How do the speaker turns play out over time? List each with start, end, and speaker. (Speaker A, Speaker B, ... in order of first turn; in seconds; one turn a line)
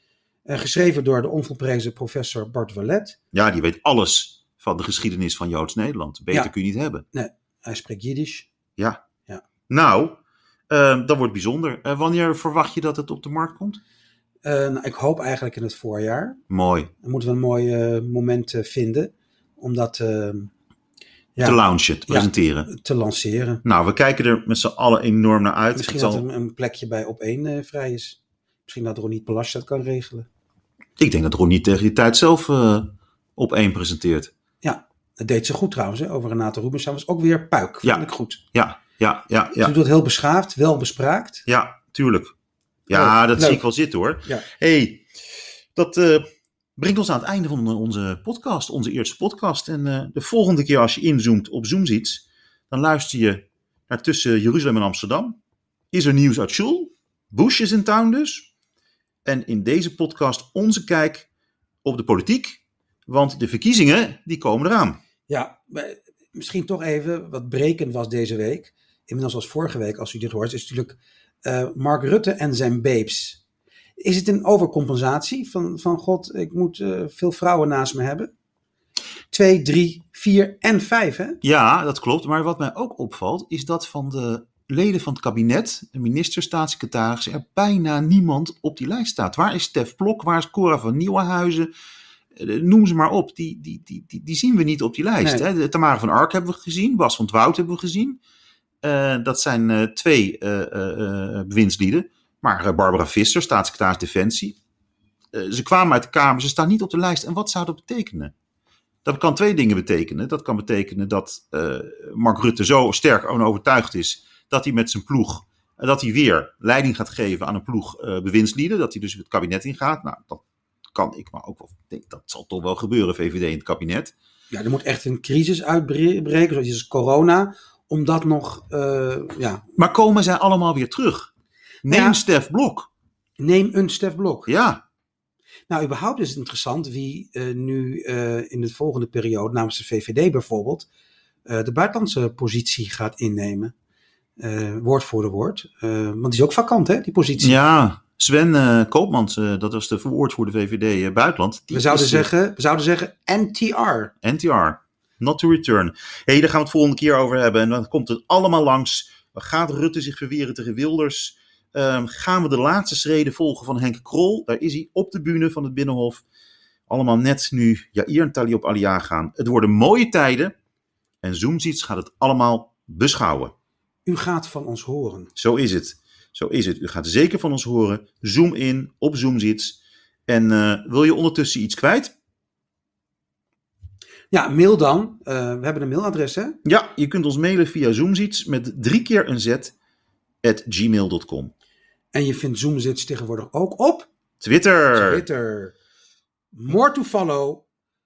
Speaker A: 0.5-3.2
Speaker B: 3.3-7.0
Speaker A: 7.1-8.5
Speaker B: 9.7-10.2
Speaker B: 10.7-13.8
Speaker A: 14.4-16.4
Speaker B: 16.5-16.9
Speaker A: 17.0-20.5
Speaker A: 21.4-23.6
Speaker B: 21.4-22.7
Speaker B: 23.6-26.2
Speaker A: 25.8-30.3
Speaker B: 31.0-34.3
Speaker A: 34.6-38.4
Speaker B: 37.8-39.7
Speaker A: 39.6-41.5
Speaker B: 41.5-42.3
Speaker B: 42.9-45.0
Speaker A: 42.9-43.6
Speaker B: 45.8-46.3
Speaker B: 46.8-55.4
Speaker B: 55.9-58.5
Speaker B: 59.2-61.3
Speaker B: 61.8-65.0
Speaker A: 65.3-73.4
Speaker A: 74.0-78.3
Speaker A: 79.3-81.4
Speaker B: 81.4-91.7
Speaker B: 92.3-98.2
Speaker B: 98.8-104.6
Speaker B: 105.3-108.3
Speaker B: 109.0-120.4
Speaker B: 120.9-124.1
Speaker A: 124.5-129.7
Speaker B: 129.8-131.3
Speaker B: 131.8-132.9
Speaker A: 131.9-132.2
Speaker A: 133.4-134.5
Speaker B: 134.5-134.8
Speaker A: 135.7-140.9
Speaker A: 141.5-143.7
Speaker A: 144.4-147.6
Speaker B: 147.4-152.3
Speaker A: 151.7-154.1
Speaker B: 154.2-166.2
Speaker B: 166.9-170.5
Speaker B: 171.2-173.5
Speaker A: 174.1-175.3
Speaker B: 175.4-182.1
Speaker A: 184.3-186.6
Speaker B: 186.7-189.7
Speaker B: 190.4-191.5
Speaker A: 192.1-194.1
Speaker B: 194.4-195.2
Speaker A: 194.9-195.8
Speaker A: 196.5-197.6